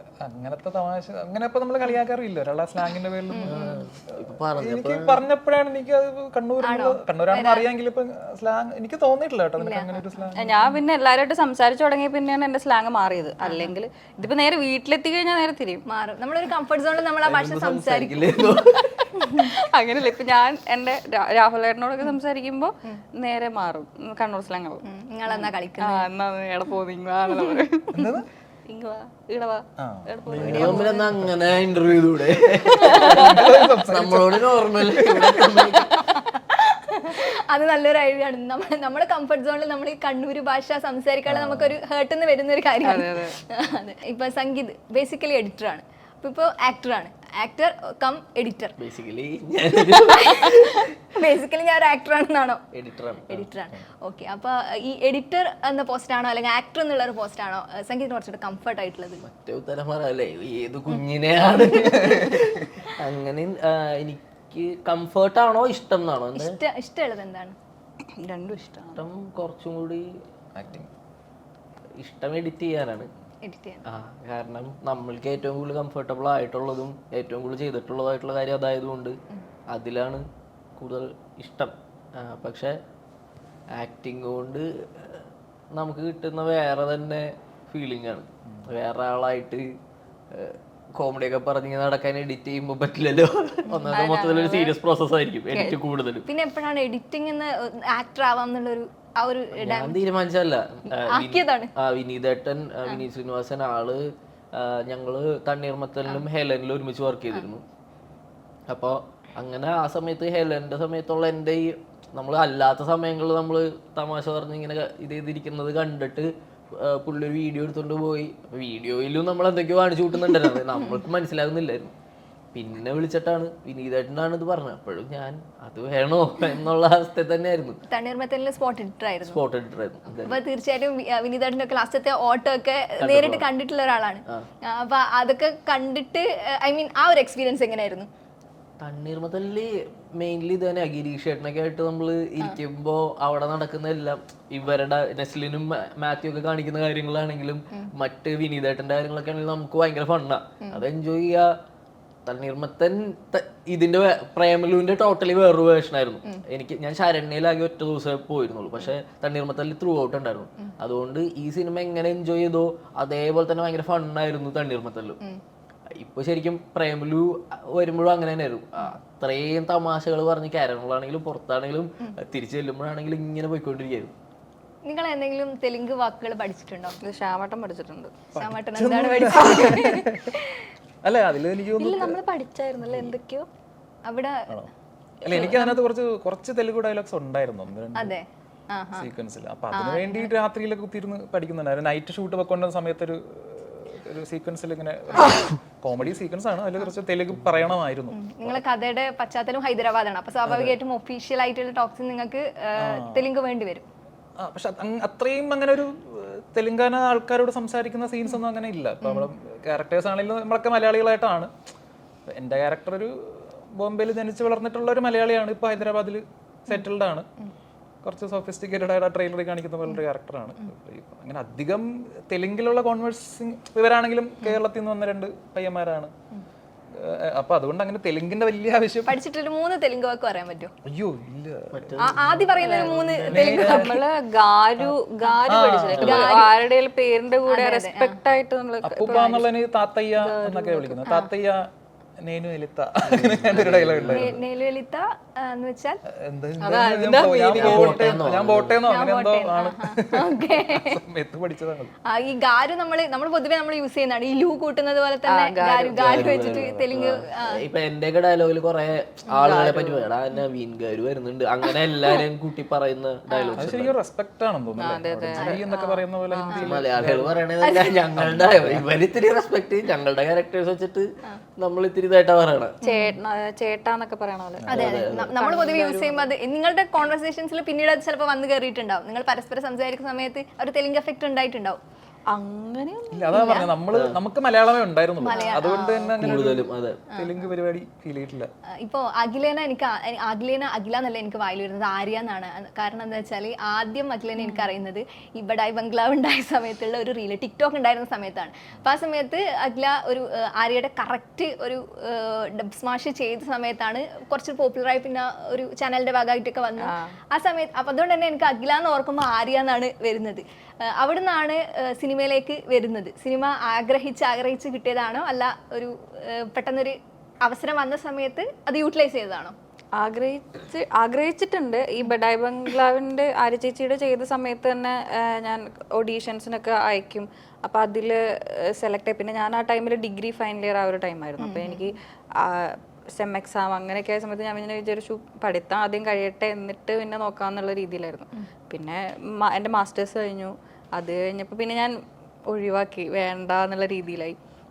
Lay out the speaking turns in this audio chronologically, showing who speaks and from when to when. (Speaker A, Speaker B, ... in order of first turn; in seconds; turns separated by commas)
Speaker A: 0.2-10.6, Speaker B: 3.3-3.6, Speaker C: 3.4-5.2, Speaker B: 6.6-7.7, Speaker B: 9.6-10.8, Speaker D: 10.4-15.8, Speaker B: 13.4-13.7, Speaker B: 15.9-18.4, Speaker C: 17.2-19.0, Speaker D: 18.4-28.1, Speaker B: 19.2-19.5, Speaker B: 24.9-26.1, Speaker B: 27.4-27.6, Speaker A: 27.9-28.3, Speaker D: 28.7-31.1, Speaker A: 29.8-31.4, Speaker C: 30.3-35.9, Speaker D: 32.6-33.4, Speaker A: 32.9-35.4, Speaker D: 35.9-36.2, Speaker B: 36.3-48.8, Speaker A: 41.2-41.8, Speaker D: 42.8-43.4, Speaker C: 48.8-50.9, Speaker B: 49.8-52.6, Speaker C: 52.7-53.5, Speaker B: 53.3-59.2, Speaker C: 59.2-66.6, Speaker B: 61.5-62.4, Speaker B: 66.3-67.5, Speaker D: 68.1-69.0, Speaker C: 69.0-70.1, Speaker A: 70.5-70.9, Speaker C: 72.0-73.1, Speaker B: 73.4-73.8, Speaker C: 73.8-79.2, Speaker C: 79.7-80.2, Speaker C: 80.8-82.8, Speaker C: 83.7-89.7, Speaker C: 90.3-96.2, Speaker D: 93.9-94.8, Speaker B: 96.2-100.0, Speaker C: 99.5-107.6, Speaker B: 100.9-101.7, Speaker C: 108.7-121.9, Speaker C: 122.5-127.8, Speaker B: 127.9-129.4, Speaker C: 129.2-130.4, Speaker B: 130.2-138.1, Speaker C: 133.0-133.5, Speaker C: 138.8-151.5, Speaker C: 152.2-165.2, Speaker C: 165.9-174.1, Speaker B: 174.8-177.0, Speaker D: 177.0-178.1, Speaker A: 178.3-180.3, Speaker B: 178.3-180.7, Speaker A: 181.0-182.2, Speaker D: 181.8-183.5, Speaker A: 182.8-183.1, Speaker B: 184.0-184.5, Speaker A: 185.2-188.2, Speaker B: 185.3-185.8, Speaker B: 187.9-189.1, Speaker A: 189.0-198.6, Speaker B: 189.7-190.3, Speaker B: 195.1-195.4, Speaker B: 198.1-203.9, Speaker A: 200.5-200.8, Speaker A: 202.8-203.3, Speaker A: 204.4-211.5, Speaker B: 209.0-209.3, Speaker A: 212.3-217.3, Speaker A: 218.0-226.1, Speaker A: 226.9-229.2, Speaker B: 229.1-230.7, Speaker A: 230.8-232.5, Speaker C: 231.7-233.7, Speaker B: 232.0-234.0, Speaker D: 232.6-239.5, Speaker A: 233.2-234.0, Speaker A: 235.5-236.3, Speaker C: 235.9-236.3, Speaker B: 236.0-236.6, Speaker B: 237.5-238.2, Speaker A: 238.8-244.4, Speaker D: 240.2-241.2, Speaker C: 243.0-244.4, Speaker B: 244.1-246.0, Speaker A: 246.1-251.9, Speaker D: 246.6-248.2, Speaker C: 247.5-248.8, Speaker B: 248.8-251.0, Speaker B: 252.1-257.6, Speaker D: 255.2-256.5, Speaker C: 255.9-264.0, Speaker A: 256.3-256.9, Speaker D: 259.3-260.1, Speaker B: 263.3-263.6, Speaker A: 263.6-267.4, Speaker D: 264.8-265.7, Speaker B: 265.4-266.0, Speaker D: 266.3-266.7, Speaker B: 266.5-266.8, Speaker C: 266.6-272.8, Speaker B: 267.6-268.0, Speaker A: 268.2-268.8, Speaker B: 272.8-273.2, Speaker D: 272.8-276.3, Speaker C: 274.7-275.4, Speaker B: 274.7-281.8, Speaker D: 282.3-283.7, Speaker A: 283.1-288.5, Speaker B: 283.3-283.7, Speaker C: 283.9-284.2, Speaker B: 285.2-286.4, Speaker D: 285.2-285.8, Speaker C: 286.2-287.0, Speaker B: 288.8-319.6, Speaker D: 294.4-294.7, Speaker D: 306.8-307.2, Speaker D: 320.0-342.0, Speaker B: 331.4-332.0, Speaker D: 342.5-344.4